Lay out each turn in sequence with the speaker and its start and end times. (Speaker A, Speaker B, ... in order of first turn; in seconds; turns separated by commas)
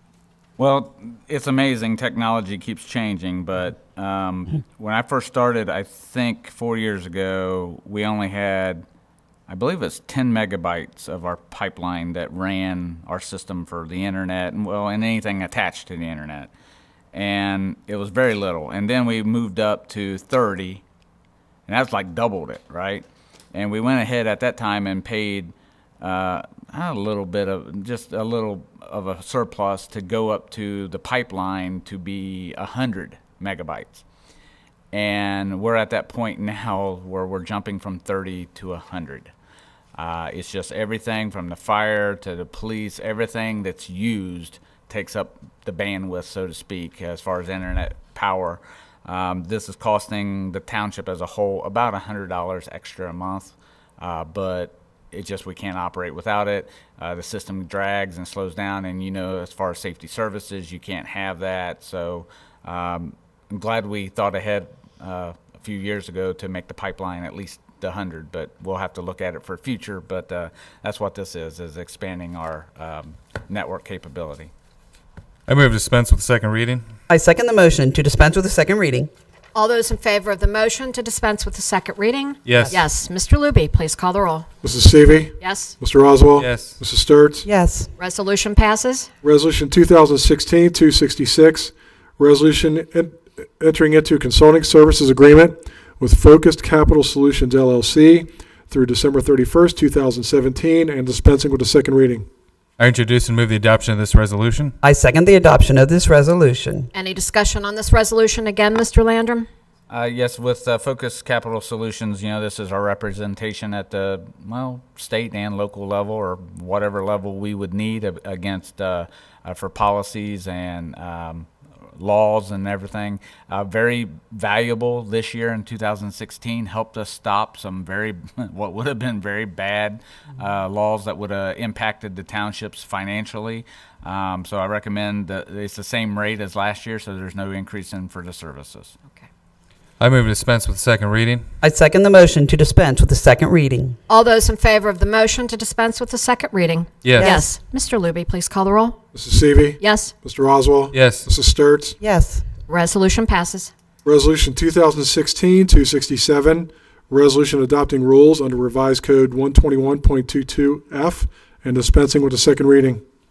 Speaker A: 0.6-8.8, Speaker A: 9.5-16.5, Speaker A: 17.1-20.8, Speaker A: 21.7-34.0, Speaker A: 34.9-39.3, Speaker A: 40.0-74.5, Speaker B: 75.5-76.8, Speaker C: 77.1-79.1, Speaker D: 79.5-84.5, Speaker B: 82.5-82.7, Speaker E: 84.6-87.5, Speaker D: 85.4-85.7, Speaker B: 86.3-86.8, Speaker C: 87.4-87.9, Speaker D: 88.0-89.1, Speaker E: 89.2-102.3, Speaker B: 102.8-104.7, Speaker C: 104.8-106.9, Speaker D: 106.9-109.5, Speaker A: 109.9-138.9, Speaker B: 140.0-141.4, Speaker C: 141.6-143.9, Speaker D: 144.1-149.0, Speaker B: 147.0-147.3, Speaker C: 147.2-147.4, Speaker E: 149.1-151.9, Speaker D: 149.8-150.1, Speaker B: 150.9-151.3, Speaker C: 152.0-152.4, Speaker D: 152.7-153.7, Speaker E: 154.0-163.0